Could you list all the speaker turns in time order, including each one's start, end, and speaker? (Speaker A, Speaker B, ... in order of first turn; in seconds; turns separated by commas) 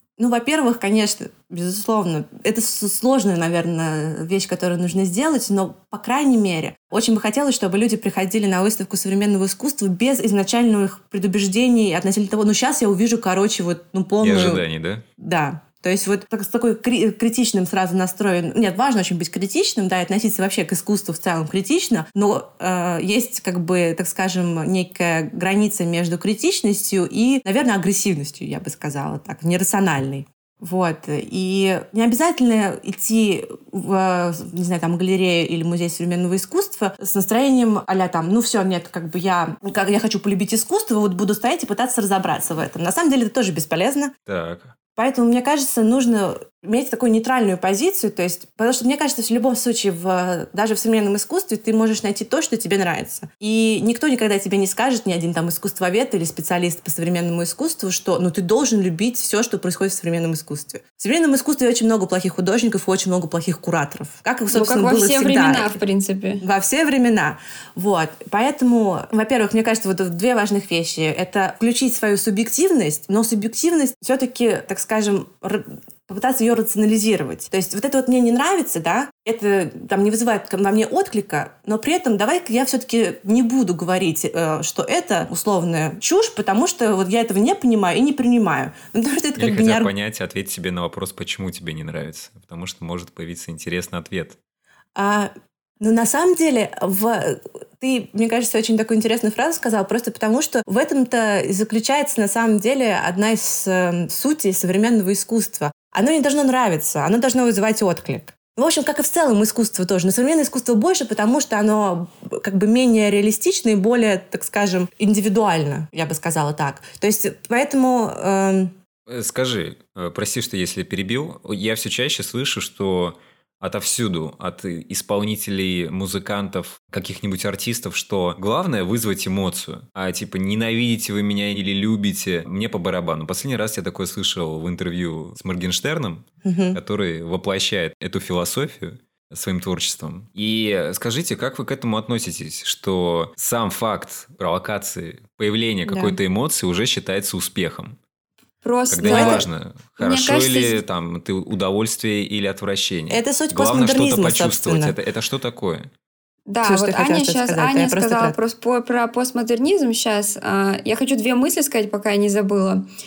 Speaker A: 0.2-14.6, Speaker B: 14.2-15.0, Speaker A: 15.2-44.1, Speaker B: 44.3-44.7, Speaker A: 45.0-65.8, Speaker C: 64.5-66.4, Speaker A: 66.4-89.9, Speaker B: 89.4-94.4, Speaker A: 95.0-118.7, Speaker B: 119.1-147.9, Speaker A: 136.4-136.8, Speaker A: 145.8-146.2, Speaker C: 148.6-149.4, Speaker B: 148.9-155.9, Speaker A: 149.0-149.4, Speaker C: 150.0-150.8, Speaker A: 153.1-154.9, Speaker C: 156.5-162.8, Speaker A: 156.6-158.4